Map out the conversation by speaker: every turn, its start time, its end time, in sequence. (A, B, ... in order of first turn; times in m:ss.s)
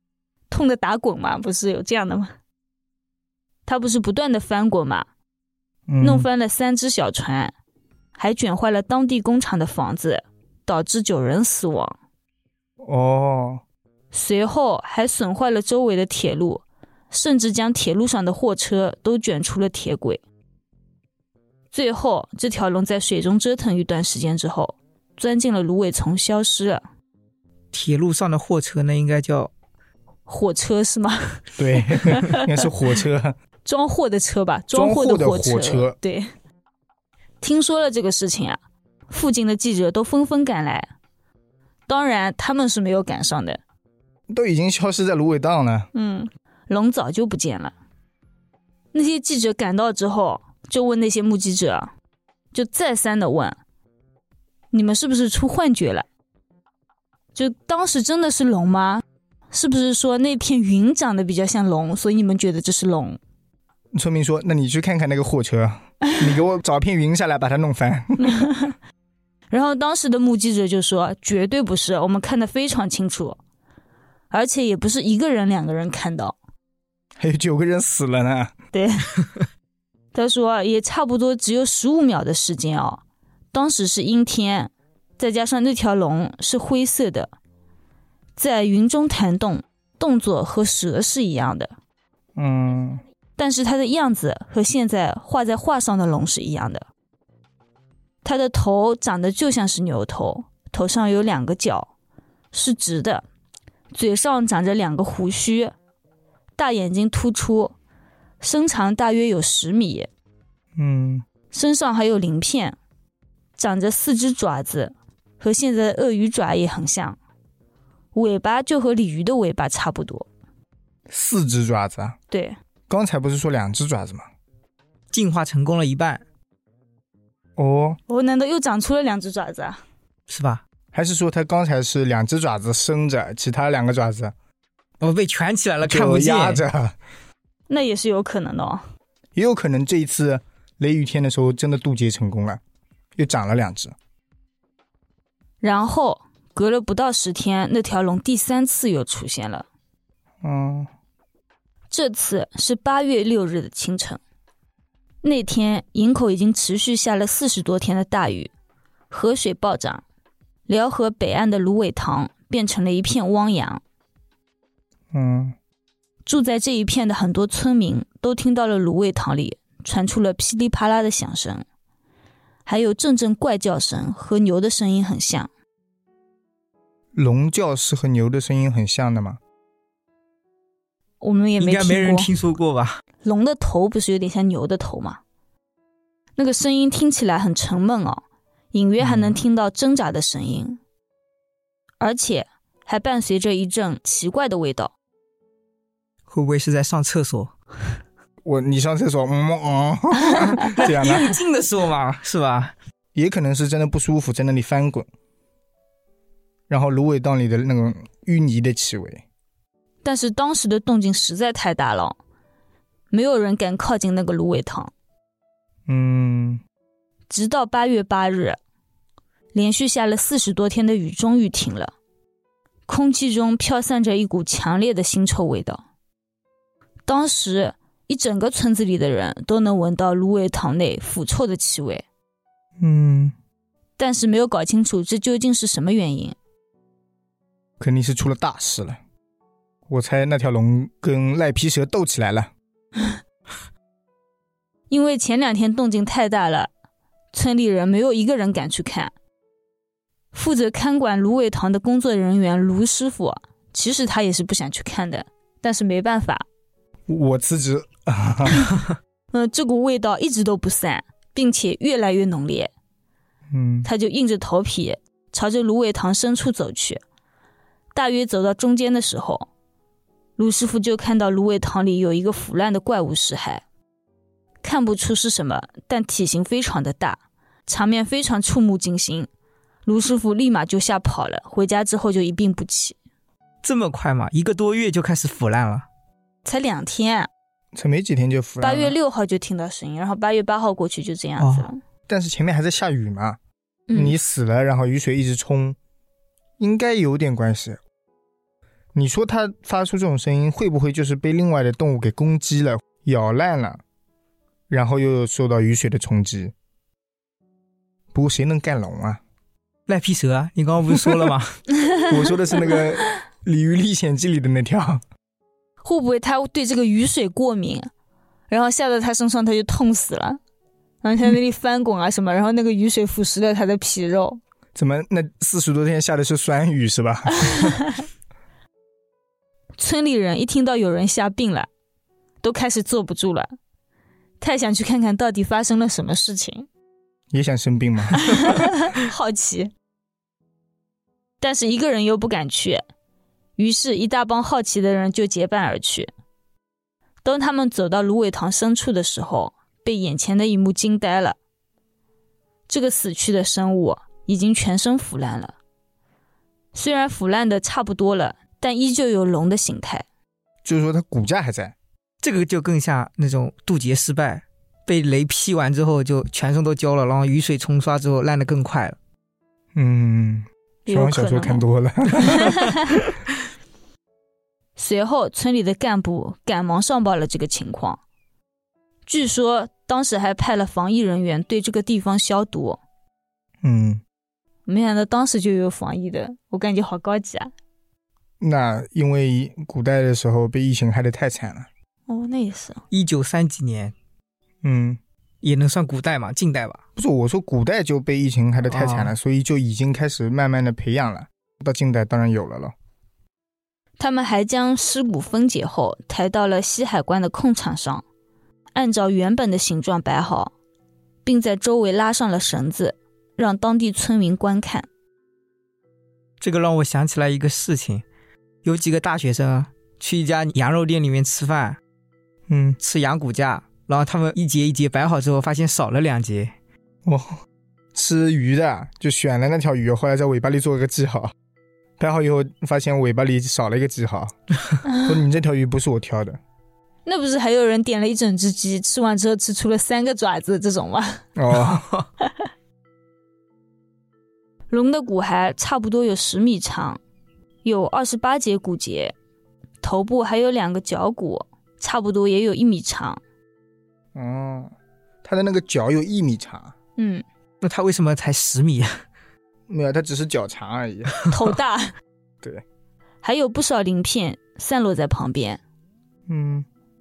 0:00.5-0:02.3 A
0:03.6-0:05.1 A
0:05.9-0:06.3 B
0:06.0-0:07.5 A
0:08.2-0:11.9 A
0:12.8-0:13.6 B
0:14.1-0:20.2 A
0:21.7-0:26.8 A
0:27.7-0:29.5 C
0:30.3-0:32.5 A
0:31.6-0:33.3 B
0:33.6-0:36.3 A
0:34.7-0:36.0 B
0:37.4-0:40.9 A
0:41.9-0:43.6 A
0:44.3-0:45.9 B
0:45.9-0:47.7 A
0:48.9-0:51.9 A
0:52.5-0:53.6 A
0:54.7-0:56.0 A
0:57.3-1:03.2 A
1:03.9-1:08.5 B
1:08.2-1:08.7 A
1:09.5-1:13.4 A
1:14.3-1:16.3 A
1:17.2-1:18.5 B
1:18.7-1:19.1 A
1:20.1-1:23.0 A
1:23.5-1:27.3 A
1:28.4-1:31.7 A
1:32.4-1:33.0 B
1:33.4-1:36.9 A
1:38.2-1:41.9 A
1:42.5-1:43.2 A
1:43.9-1:45.7 A
1:46.6-1:47.8 A
1:48.4-1:50.1 A
1:50.8-1:51.2 B
1:51.5-1:52.8 A
1:53.6-1:57.2 A
1:58.1-2:00.2 A
2:01.1-2:02.2 B
2:02.3-2:02.6 A
2:02.9-2:04.2 B
2:05.1-2:06.2 C
2:07.6-2:08.0 B
2:08.1-2:09.8 A
2:10.3-2:10.6 C
2:10.9-2:14.3 B
2:15.0-2:16.6 C
2:15.8-2:17.0 B
2:17.7-2:18.8 A
2:19.3-2:22.6 B
2:23.2-2:23.9 B
2:25.6-2:29.7 A
2:30.4-2:30.9 B
2:31.9-2:34.2 A
2:35.2-2:38.5 A
2:39.1-2:40.0 A
2:40.7-2:43.8 A
2:45.1-2:45.6 B
2:46.2-2:51.6 A
2:52.6-2:55.5 A
2:57.1-2:59.4 B
3:01.2-3:02.3 A
3:01.6-3:03.0 C
3:03.2-3:05.2 A
3:06.4-3:10.8 A
3:09.0-3:09.4 B
3:12.0-3:14.9 A
3:16.3-3:17.5 C
3:18.4-3:21.4 B
3:20.6-3:22.7 C
3:23.1-3:25.0 B
3:26.7-3:29.2 B
3:30.0-3:32.2 A
3:33.1-3:34.9 A
3:35.9-3:36.6 B
3:37.3-3:38.6 A
3:39.5-3:41.9 A
3:42.9-3:45.8 A
3:47.0-3:52.0 A
3:52.8-3:53.3 B
3:54.0-3:56.4 A
3:57.8-3:59.0 B
3:59.9-4:02.5 B
4:04.9-4:06.7 A
4:07.3-4:09.1 A
4:10.3-4:16.4 A
4:17.1-4:18.7 B
4:19.3-4:22.7 A
4:23.5-4:23.9 B
4:23.8-4:27.0 A
4:27.9-4:29.5 A
4:30.4-4:33.6 A
4:34.6-4:39.3 A
4:39.8-4:43.0 A
4:43.6-4:45.8 C
4:46.4-4:47.3 A
4:47.7-4:48.9 B
4:48.6-4:51.8 A
4:51.4-4:51.7 C
4:52.1-4:53.4 B
4:53.9-4:54.1 A
4:53.9-4:55.8 B
4:56.6-4:57.8 B
4:58.9-5:03.8 B
5:04.7-5:06.5 B
5:08.1-5:09.2 B
5:09.9-5:11.6 C
5:12.1-5:15.0 B
5:15.8-5:17.9 A
5:18.5-5:20.4 A
5:21.0-5:24.4 A
5:24.7-5:27.8 B
5:27.4-5:28.0 A
5:29.8-5:31.7 A
5:32.4-5:33.5 A
5:34.4-5:36.7 A
5:37.3-5:38.5 B
5:38.2-5:39.7 A
5:41.4-5:42.8 A
5:43.6-5:46.1 A
5:47.2-5:51.4 A
5:52.7-5:55.6 A
5:56.7-6:00.0 A
6:00.6-6:01.7 B
6:02.2-6:09.0 C
6:09.7-6:12.8 B
6:10.8-6:11.6 A
6:12.2-6:13.0 A
6:14.8-6:18.0 A
6:19.1-6:22.8 A
6:23.6-6:24.0 B
6:24.7-6:27.5 A
6:28.4-6:31.7 B
6:32.1-6:32.8 A
6:32.9-6:33.9 C
6:34.6-6:35.0 B
6:35.4-6:36.8 C
6:37.0-6:42.7 B
6:38.7-6:39.1 C
6:44.0-6:48.0 A
6:48.7-6:50.5 A
6:51.2-6:54.9 A
6:56.4-6:58.0 C
6:58.6-7:01.8 C
7:02.5-7:02.8 B
7:02.8-7:06.5 C
7:07.0-7:07.3 B
7:07.9-7:11.3 B
7:12.0-7:14.3 B
7:15.0-7:16.4 B
7:17.0-7:21.2 A
7:21.4-7:21.9 B
7:24.7-7:27.0 A
7:27.6-7:29.1 A
7:29.8-7:33.2 A
7:34.1-7:34.7 B
7:35.2-7:36.7 B
7:37.0-7:37.2 A
7:37.6-7:39.0 C
7:39.7-7:41.2 B
7:41.3-7:41.9 A
7:43.2-7:45.6 A
7:46.3-7:46.7 B